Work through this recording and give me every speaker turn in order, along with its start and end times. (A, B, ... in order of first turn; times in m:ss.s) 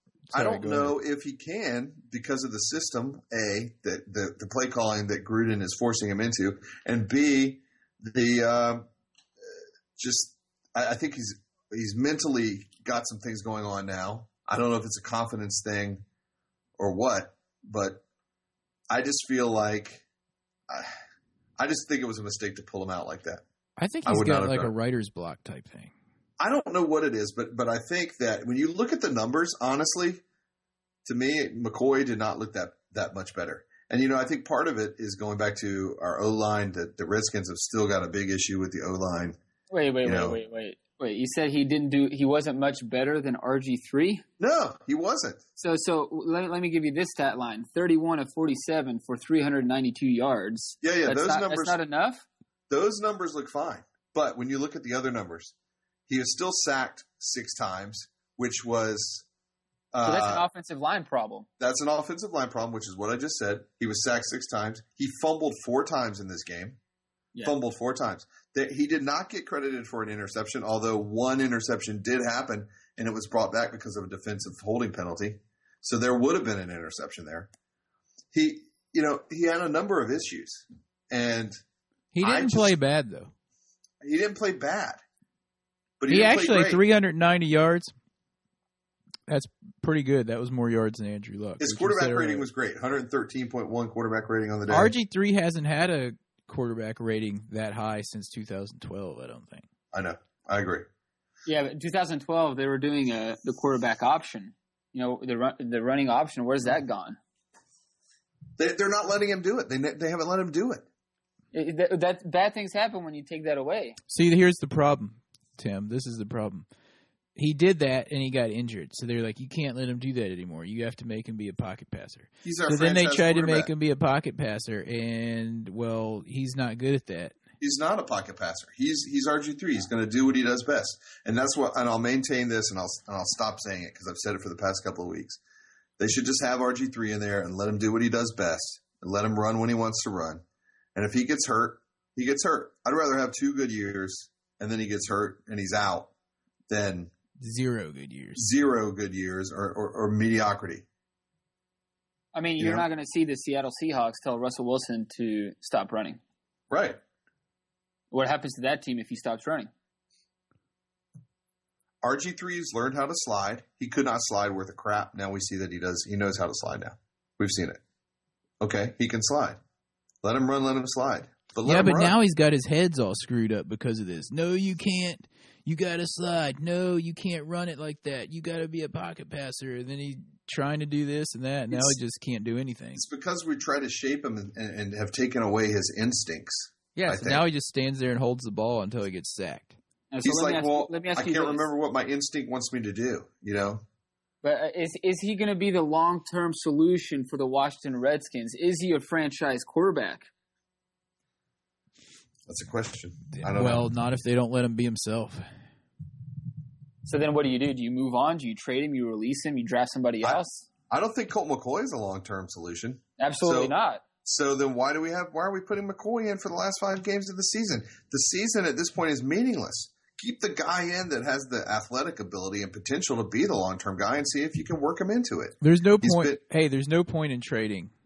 0:00.3-0:01.0 A
0:00.3-0:08.9 B
0:09.5-0:16.0 B
0:16.8-0:18.0 B
0:18.9-0:20.0 B
0:21.6-0:23.4 B
0:23.8-0:25.9 A
0:24.0-0:24.7 B
0:26.4-0:30.2 B
0:31.0-0:39.4 B
0:39.7-0:44.2 C
0:40.0-0:40.4 B
0:44.4-0:45.4 B
0:45.6-0:52.2 C
0:50.8-0:51.8 B
0:52.7-0:55.6 B
0:56.1-0:59.3 B
0:59.9-1:00.4 B
1:00.0-1:01.5 C
1:01.6-1:06.8 B
1:07.4-1:17.5 B
1:18.3-1:21.6 B
1:22.1-1:23.3 A
1:22.2-1:22.8 B
1:24.0-1:25.0 B
1:26.0-1:26.8 B
1:26.1-1:27.9 A
1:29.3-1:32.5 A
1:31.6-1:34.9 B
1:34.7-1:39.6 A
1:39.9-1:40.9 B
1:41.5-1:47.2 C
1:48.6-1:50.9 B
1:51.5-1:54.0 C
1:54.1-1:56.7 A
1:57.4-2:07.4 A
2:02.4-2:03.7 B
2:07.6-2:15.4 B
2:16.0-2:20.4 B
2:21.0-2:26.1 B
2:26.7-2:27.1 B
2:27.4-2:28.5 A
2:28.4-2:30.9 B
2:32.3-2:36.2 C
2:32.6-2:32.8 B
2:36.7-2:37.0 B
2:38.1-2:39.7 C
2:42.0-2:47.8 B
2:48.6-2:49.6 B
2:50.2-2:52.2 B
2:51.6-3:03.0 A
3:03.0-3:07.4 B
3:07.0-3:09.8 A
3:10.1-3:11.6 C
3:10.2-3:13.8 B
3:14.4-3:20.3 C
3:22.5-3:23.9 B
3:23.4-3:25.4 A
3:27.0-3:30.7 C
3:30.2-3:33.7 B
3:33.2-3:34.0 C
3:34.2-3:46.4 B
3:45.6-3:47.9 A